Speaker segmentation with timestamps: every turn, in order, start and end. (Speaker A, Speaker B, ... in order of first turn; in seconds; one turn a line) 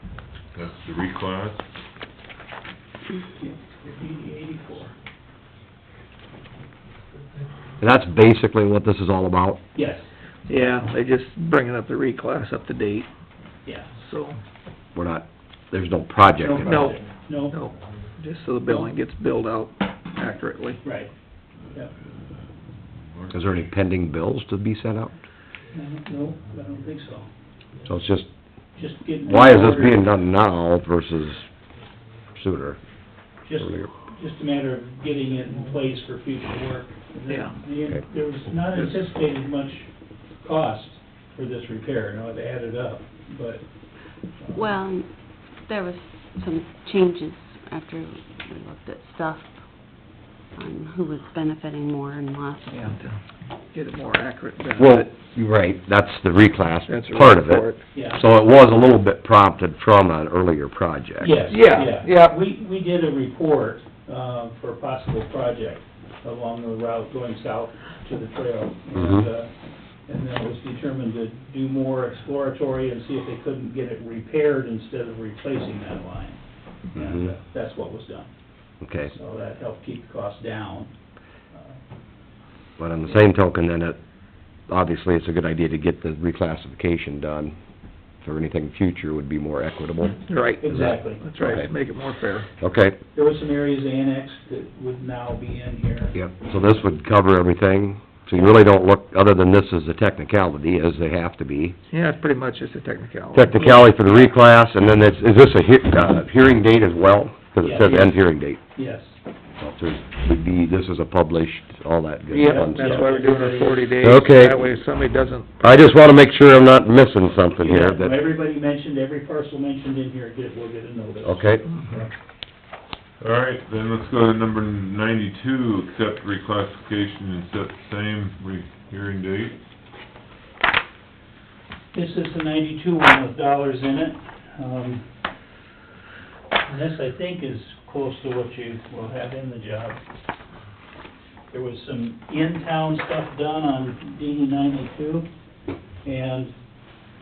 Speaker A: 0.5-1.6
Speaker B: 3.4-4.9
Speaker C: 7.8-9.6
Speaker B: 9.7-10.1
Speaker D: 10.5-13.1
Speaker B: 13.6-13.9
Speaker D: 13.9-14.4
Speaker C: 14.9-17.0
Speaker B: 16.4-17.7
Speaker D: 16.6-16.9
Speaker D: 17.5-20.8
Speaker B: 20.8-21.1
Speaker A: 22.9-23.4
Speaker C: 23.3-25.1
Speaker B: 25.7-27.3
Speaker C: 27.9-28.3
Speaker B: 28.7-30.0
Speaker C: 29.2-31.5
Speaker C: 32.3-32.8
Speaker B: 33.4-43.6
Speaker D: 37.3-37.6
Speaker B: 44.4-44.8
Speaker E: 44.5-49.6
Speaker E: 50.5-52.8
Speaker D: 52.7-53.2
Speaker D: 53.7-55.0
Speaker C: 54.8-61.5
Speaker D: 56.9-57.8
Speaker B: 57.9-58.2
Speaker B: 61.2-69.5
Speaker D: 61.5-62.4
Speaker C: 68.9-69.3
Speaker B: 70.1-76.4
Speaker B: 76.9-78.3
Speaker C: 76.9-77.3
Speaker C: 78.8-79.1
Speaker B: 79.0-80.9
Speaker B: 81.5-81.8
Speaker C: 82.8-84.0
Speaker C: 84.5-91.7
Speaker D: 90.3-92.5
Speaker B: 90.6-91.4
Speaker C: 92.6-93.0
Speaker B: 93.1-96.2
Speaker C: 96.2-101.8
Speaker D: 101.9-104.0
Speaker C: 103.3-108.6
Speaker B: 107.6-108.2
Speaker B: 108.7-109.2
Speaker C: 109.6-113.1
Speaker D: 112.3-115.7
Speaker B: 112.4-113.9
Speaker C: 114.0-114.6
Speaker C: 115.6-118.2
Speaker B: 117.6-122.1
Speaker C: 121.2-121.7
Speaker A: 123.2-129.6
Speaker B: 131.9-135.1
Speaker B: 136.7-140.0
Speaker B: 141.5-145.3
Speaker B: 146.0-146.5